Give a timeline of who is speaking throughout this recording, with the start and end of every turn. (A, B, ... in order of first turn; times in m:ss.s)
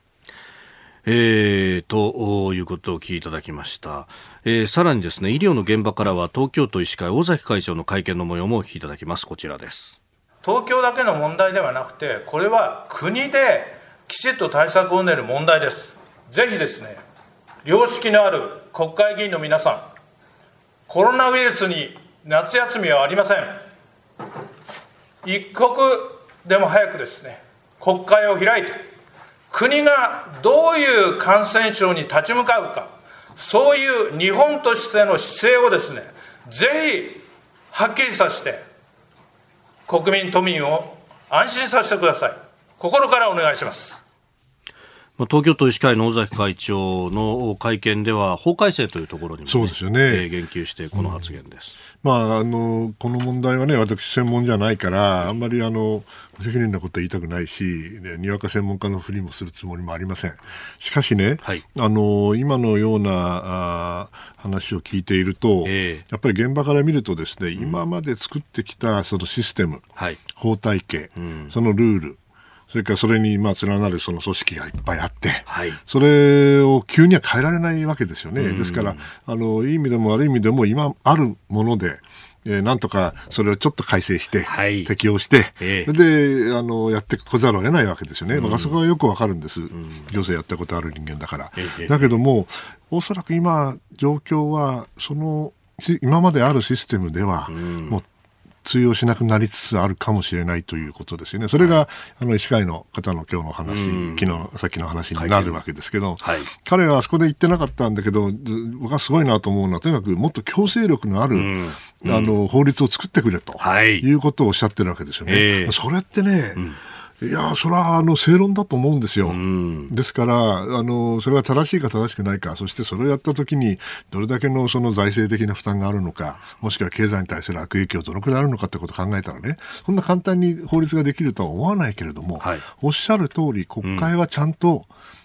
0:01.0-0:10.0 A
0:10.4-0:17.0 B
0:17.6-0:19.8 B
0:20.9-0:23.6 B
0:25.2-0:28.8 B
0:29.5-0:38.6 B
0:39.9-0:44.0 B
0:45.2-0:51.8 A
0:49.5-0:50.3 C
0:50.9-0:51.2 C
0:52.0-1:12.2 C
1:05.6-1:06.0 A
1:10.0-1:10.2 A
1:11.2-1:11.5 A
1:12.7-1:38.0 C
1:15.5-1:15.8 A
1:18.4-1:19.1 A
1:24.4-1:24.9 A
1:25.6-1:25.9 A
1:28.3-1:28.8 A
1:29.8-1:30.0 A
1:31.6-1:32.0 A
1:37.5-1:38.0 A
1:38.6-1:56.7 C
1:43.6-1:44.4 A
1:45.2-1:45.6 A
1:46.2-1:46.5 A
1:51.3-1:52.4 A
1:53.6-1:54.0 A
1:55.3-1:55.7 A
1:57.2-2:14.9 C
1:59.2-1:59.9 A
2:12.4-2:12.6 A
2:13.8-2:14.1 A